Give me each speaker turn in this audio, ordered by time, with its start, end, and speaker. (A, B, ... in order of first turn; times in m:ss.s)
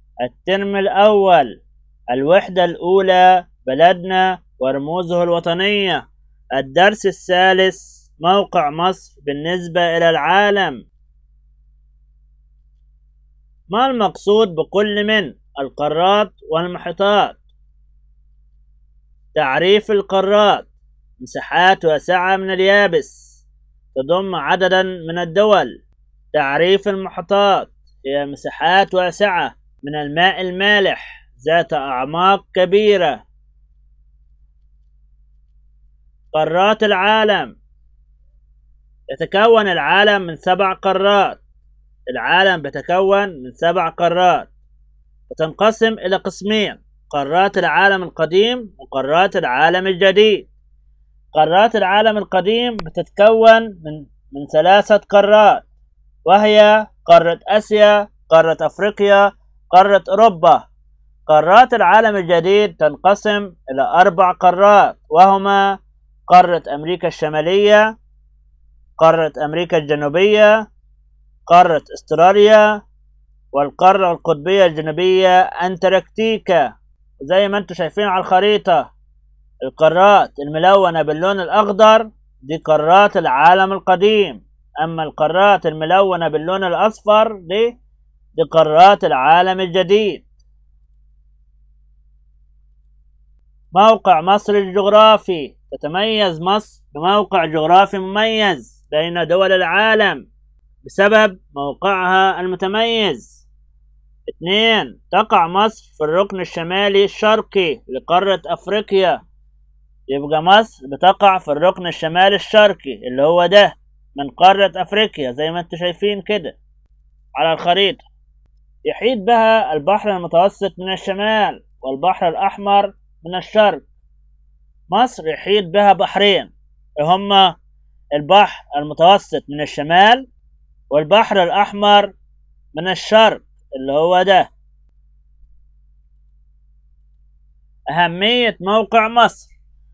0:00.2-0:10.8 A
0:13.7-0:17.4 A
0:19.3-0:23.4 A
0:24.0-0:33.2 A
0:36.3-0:37.6 A
0:39.1-0:41.4 A
0:42.1-0:44.5 A
0:45.3-0:50.5 A
0:51.3-0:55.7 A
0:56.3-1:00.7 A
1:01.3-1:07.9 A
1:09.0-1:10.6 A
1:11.5-1:12.8 A
1:13.5-1:18.9 A
1:19.6-1:27.8 A
1:28.4-1:30.3 A
1:33.7-1:40.3 A
1:40.8-1:43.5 A
1:44.3-1:49.2 A
1:50.1-1:56.6 A
1:57.4-1:58.0 A
1:58.8-2:03.8 A
2:04.9-2:07.6 A
2:08.2-2:10.3 A
2:10.9-2:12.2 A
2:12.7-2:14.5 A
2:17.9-2:19.5 A